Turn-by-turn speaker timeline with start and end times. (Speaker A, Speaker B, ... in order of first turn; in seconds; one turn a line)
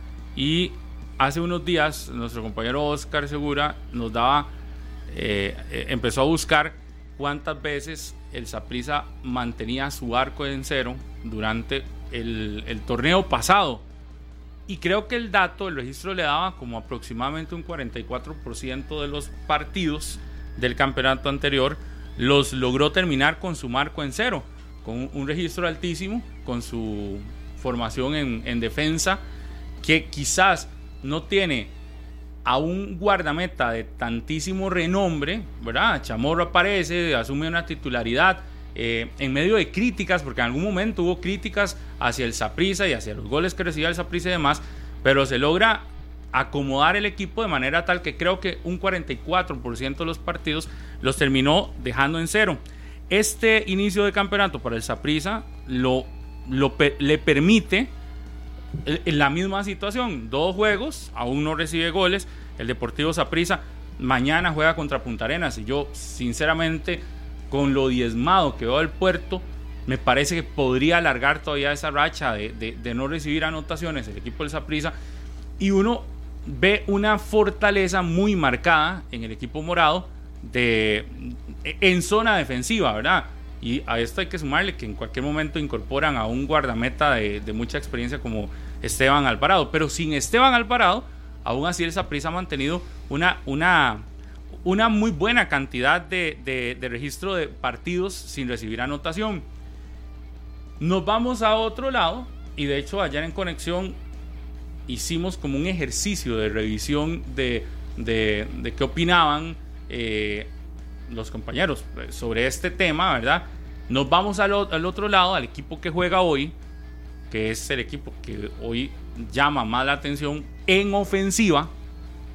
Speaker A: 0.4-4.5
Speaker A: 5.1-13.8
Speaker A: 14.7-29.2
Speaker A: 29.8-31.7
Speaker A: 32.5-57.9
Speaker A: 58.8-74.9
Speaker A: 75.6-94.1
Speaker A: 94.6-99.5
Speaker A: 100.8-104.0
Speaker A: 104.9-110.5
Speaker A: 111.1-116.5
Speaker A: 117.3-121.7